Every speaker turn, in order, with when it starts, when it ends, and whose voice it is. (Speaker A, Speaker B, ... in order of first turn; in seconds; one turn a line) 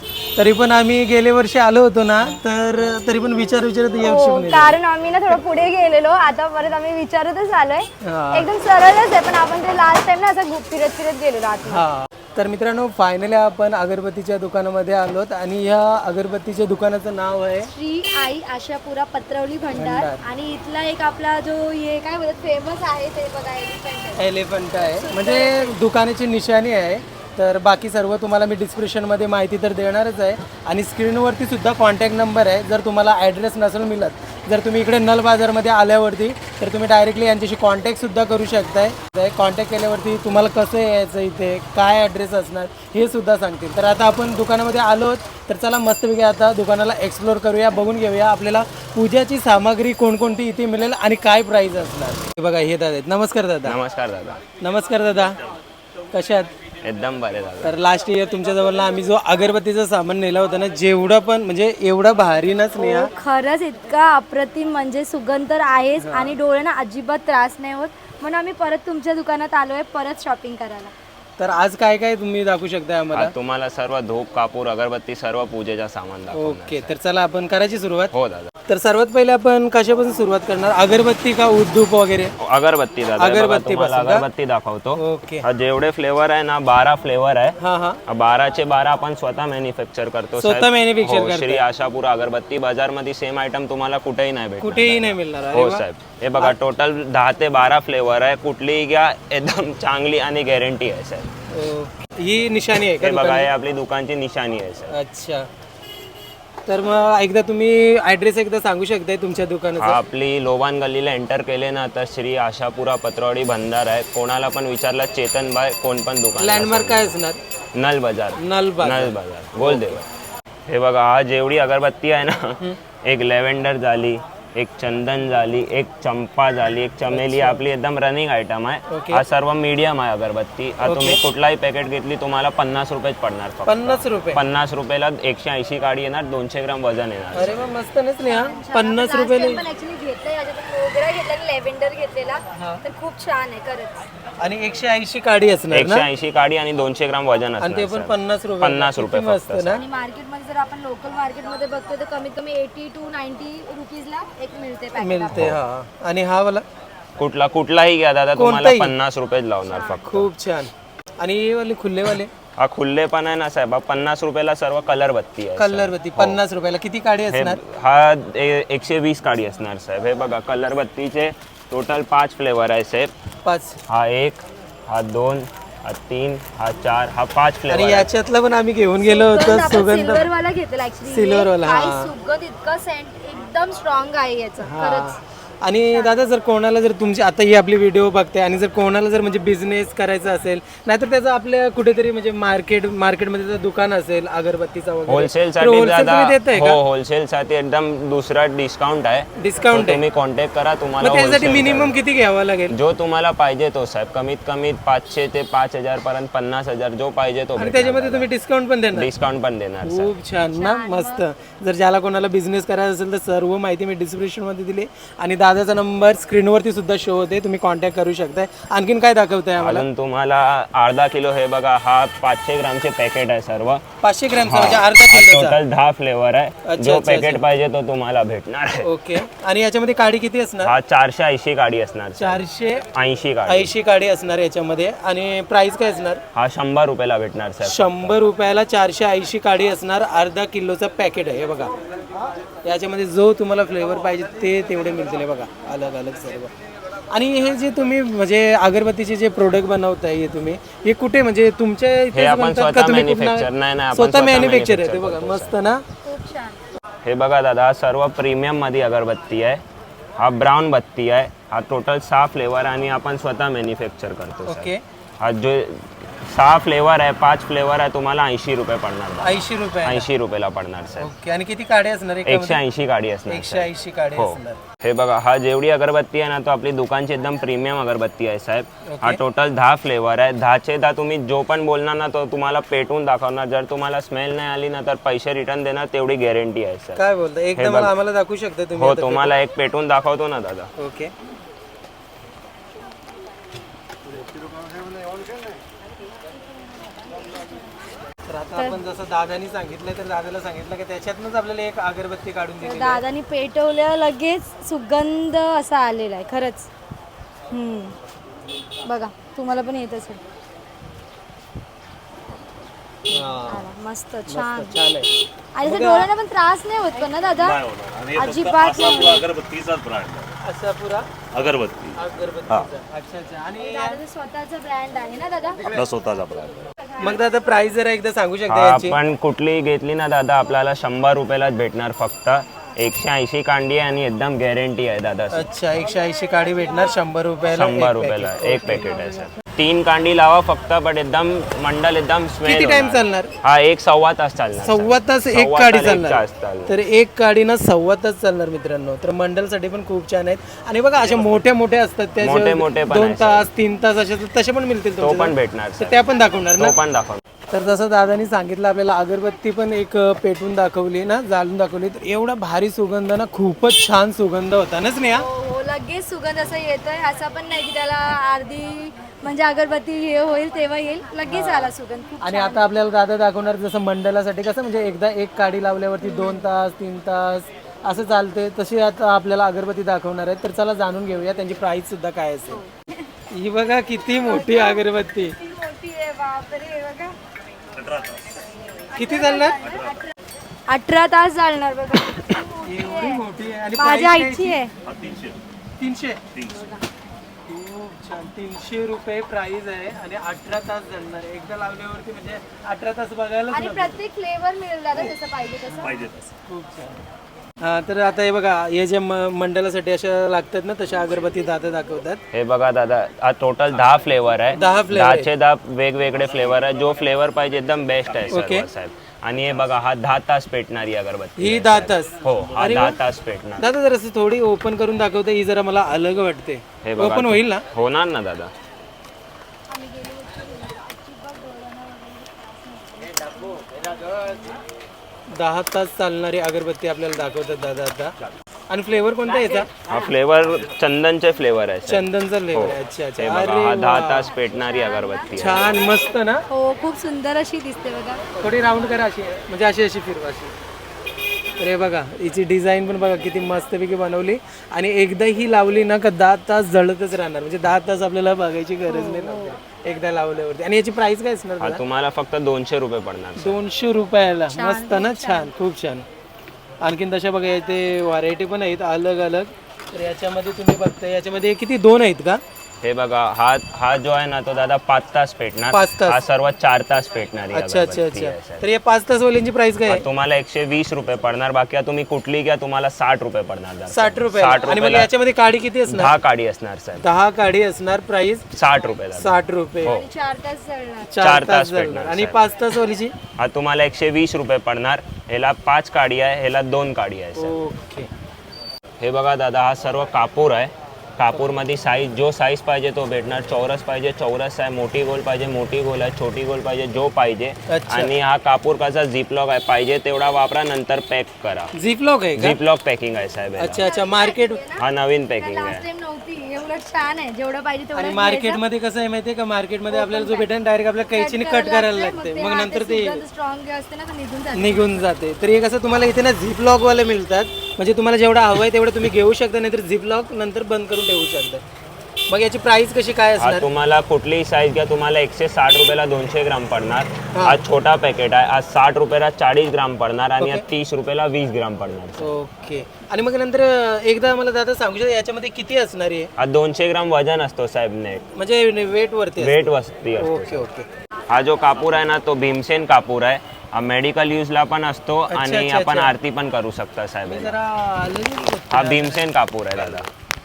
Speaker A: 0.4-4.8
Speaker B: 4.0-11.8
Speaker A: 8.0-8.5
Speaker A: 11.7-17.7
Speaker B: 17.7-24.3
Speaker A: 19.7-20.2
Speaker A: 24.2-53.8
Speaker B: 24.8-25.8
Speaker C: 53.6-54.4
Speaker A: 54.6-55.4
Speaker A: 56.1-56.5
Speaker C: 56.8-57.8
Speaker A: 57.6-63.1
Speaker B: 62.8-70.9
Speaker A: 66.0-66.3
Speaker A: 71.4-73.3
Speaker C: 73.2-76.9
Speaker A: 76.3-78.1
Speaker C: 78.1-78.5
Speaker A: 78.7-82.3
Speaker C: 82.4-101.3
Speaker A: 83.2-84.3
Speaker A: 85.0-85.5
Speaker A: 87.6-88.0
Speaker A: 90.4-91.7
Speaker A: 94.6-95.8
Speaker A: 101.5-103.5
Speaker C: 103.0-104.9
Speaker A: 104.9-105.5
Speaker A: 106.7-110.0
Speaker C: 109.8-117.1
Speaker A: 116.4-117.4
Speaker C: 117.8-120.0
Speaker A: 118.4-120.0
Speaker C: 120.7-137.5
Speaker A: 127.1-127.6
Speaker A: 128.9-129.2
Speaker A: 130.8-131.2
Speaker A: 133.7-134.4
Speaker A: 137.3-139.6
Speaker B: 138.3-144.1
Speaker A: 142.6-142.8
Speaker A: 144.4-146.1
Speaker C: 145.7-149.8
Speaker A: 147.6-149.8
Speaker B: 149.7-155.5
Speaker A: 155.0-156.7
Speaker C: 157.2-160.3
Speaker A: 158.4-158.9
Speaker A: 160.0-162.3
Speaker C: 162.6-166.4
Speaker A: 165.6-167.6
Speaker C: 167.3-173.1
Speaker A: 173.4-173.8
Speaker C: 173.9-178.1
Speaker A: 177.7-180.3
Speaker B: 179.0-185.2
Speaker A: 181.1-182.1
Speaker A: 184.6-196.8
Speaker B: 185.9-186.2
Speaker C: 195.1-202.0
Speaker A: 199.4-200.0
Speaker A: 201.0-202.8
Speaker C: 202.7-208.3
Speaker A: 207.6-209.1
Speaker C: 208.9-210.1
Speaker A: 209.8-219.9
Speaker B: 210.5-211.2
Speaker C: 219.6-223.8
Speaker A: 224.0-225.6
Speaker C: 224.5-228.9
Speaker A: 226.6-227.4
Speaker A: 228.8-230.8
Speaker C: 230.6-233.7
Speaker A: 232.2-232.9
Speaker A: 233.4-236.2
Speaker C: 236.3-238.2
Speaker A: 237.6-241.7
Speaker A: 242.6-246.5
Speaker A: 247.1-255.8
Speaker C: 252.1-255.6
Speaker B: 256.1-256.6
Speaker C: 257.0-259.6
Speaker C: 260.2-271.1
Speaker A: 264.5-264.8
Speaker A: 269.2-270.1
Speaker A: 271.0-272.6
Speaker C: 272.3-287.0
Speaker A: 273.3-274.6
Speaker A: 278.9-279.2
Speaker A: 287.0-289.3
Speaker C: 287.6-287.9
Speaker C: 288.8-290.7
Speaker A: 290.8-291.1
Speaker A: 298.3-303.0
Speaker B: 302.6-306.7
Speaker B: 307.5-308.0
Speaker B: 308.8-310.2
Speaker A: 313.1-313.7
Speaker B: 313.1-314.8
Speaker A: 314.3-315.1
Speaker B: 315.6-317.6
Speaker A: 315.6-316.1
Speaker D: 317.4-320.3
Speaker B: 318.1-319.2
Speaker A: 320.4-321.3
Speaker D: 321.3-322.0
Speaker A: 321.9-324.0
Speaker B: 323.6-325.6
Speaker A: 325.6-325.9
Speaker D: 325.7-326.6
Speaker A: 327.0-329.0
Speaker C: 328.5-335.5
Speaker A: 335.3-339.3
Speaker C: 337.4-346.8
Speaker A: 342.4-343.3
Speaker A: 344.6-356.8
Speaker C: 351.0-351.4
Speaker C: 352.2-353.5
Speaker C: 355.0-356.0
Speaker C: 356.6-357.2
Speaker A: 357.5-365.2
Speaker B: 365.1-372.7
Speaker A: 371.3-382.6
Speaker B: 376.0-376.5
Speaker A: 383.3-385.4
Speaker B: 384.1-384.8
Speaker B: 385.4-387.2
Speaker D: 387.7-388.3
Speaker B: 388.9-390.1
Speaker A: 388.9-389.6
Speaker D: 389.6-390.0
Speaker B: 390.7-393.2
Speaker A: 392.6-394.6
Speaker B: 393.8-394.7
Speaker D: 394.9-395.4
Speaker A: 395.8-396.2
Speaker D: 396.3-396.7
Speaker B: 396.5-396.8
Speaker A: 397.5-404.0
Speaker B: 403.5-405.9
Speaker D: 405.8-406.2
Speaker A: 405.8-407.0
Speaker A: 407.6-412.2
Speaker C: 412.3-423.6
Speaker A: 414.5-415.3
Speaker D: 416.1-418.5
Speaker A: 418.3-418.7
Speaker D: 419.4-419.7
Speaker A: 421.4-423.0
Speaker A: 423.6-427.6
Speaker C: 426.8-428.5
Speaker B: 429.7-434.6
Speaker A: 435.3-438.1
Speaker A: 438.7-439.7
Speaker C: 439.9-445.8
Speaker A: 441.9-444.3
Speaker B: 444.2-448.3
Speaker A: 445.3-446.5
Speaker A: 448.4-450.5
Speaker A: 451.6-461.8
Speaker B: 458.9-459.6
Speaker C: 461.6-463.6
Speaker A: 463.4-466.1
Speaker B: 464.5-465.5
Speaker A: 466.8-472.4
Speaker C: 472.8-478.6
Speaker A: 475.7-476.2
Speaker A: 477.5-480.0
Speaker C: 479.9-485.1
Speaker A: 483.9-486.1
Speaker C: 485.9-487.1
Speaker A: 487.0-488.5
Speaker C: 488.5-490.1
Speaker A: 489.1-489.9
Speaker B: 489.9-491.1
Speaker A: 491.1-493.1
Speaker C: 491.2-492.4
Speaker C: 493.4-497.5
Speaker A: 497.4-498.1
Speaker C: 499.0-511.7
Speaker A: 507.7-508.1
Speaker A: 511.8-512.6
Speaker C: 512.4-513.9
Speaker A: 513.6-514.6
Speaker B: 513.8-514.9
Speaker C: 514.8-515.9
Speaker B: 515.4-518.6
Speaker A: 518.0-523.2
Speaker B: 519.9-520.5
Speaker B: 521.1-525.0
Speaker A: 524.5-531.6
Speaker A: 532.3-533.7
Speaker C: 533.4-542.3
Speaker A: 537.3-537.6
Speaker A: 540.4-540.6
Speaker A: 542.2-546.3
Speaker C: 546.4-548.3
Speaker A: 548.4-550.9
Speaker C: 549.4-550.7
Speaker C: 551.3-557.5
Speaker A: 555.3-556.1
Speaker A: 557.3-559.2
Speaker C: 558.7-560.1
Speaker D: 559.7-560.1